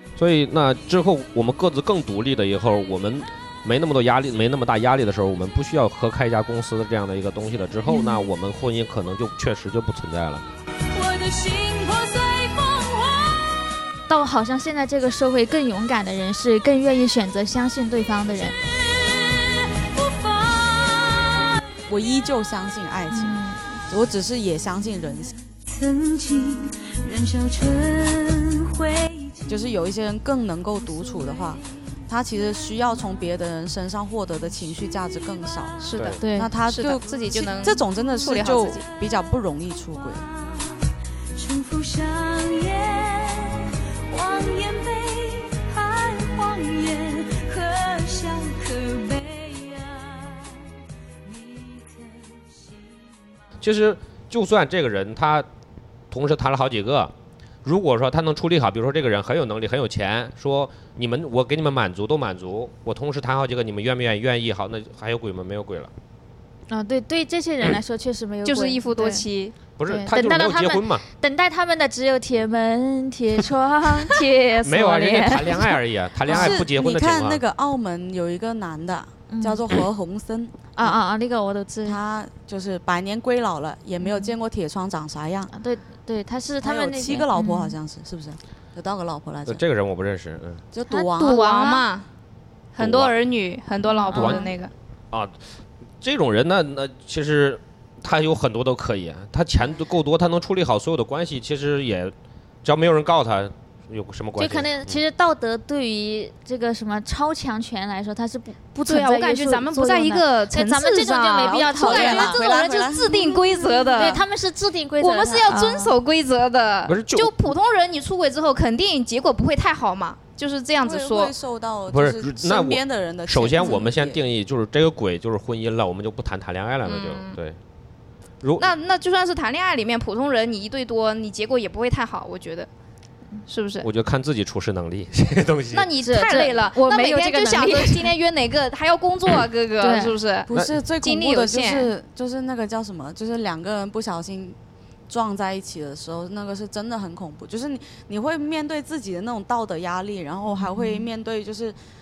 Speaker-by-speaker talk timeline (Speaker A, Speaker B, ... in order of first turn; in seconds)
Speaker A: 0.1-10.4, 53.6-55.5, 56.1-57.1, 57.6-65.9, 69.8-71.0, 74.6-77.4, 89.5-90.6, 92.8-93.1, 96.0-102.1, 102.6-105.0, 116.9-117.3, 121.9-127.6, 128.4-128.7, 133.8-135.9
Speaker B: 7.9-8.2, 14.1-18.6, 23.1-23.6, 36.2-36.5, 66.7-69.2, 69.9-76.6, 79.3-79.6, 80.8-82.0, 84.0-84.3, 85.5-87.8, 94.0-94.5, 104.4-112.4, 114.0-115.9, 136.0-138.1, 139.8-140.1, 150.6-151.0
Speaker C: 10.9-13.7, 18.6-21.6, 25.7-29.6, 40.2-50.7, 51.2-53.4
Speaker D: 21.9-25.3, 29.5-40.3, 76.2-81.0, 81.8-85.5, 86.6-89.6, 90.7-91.9, 111.4-114.2, 120.8-124.2, 140.5-144.6, 145.1-151.8
Speaker E: 35.8-38.8, 68.5-69.5, 91.1-92.1, 92.7-94.7, 108.9-114.2, 115.0-121.3, 126.8-127.4, 128.6-132.7, 133.5-133.9, 135.7-141.9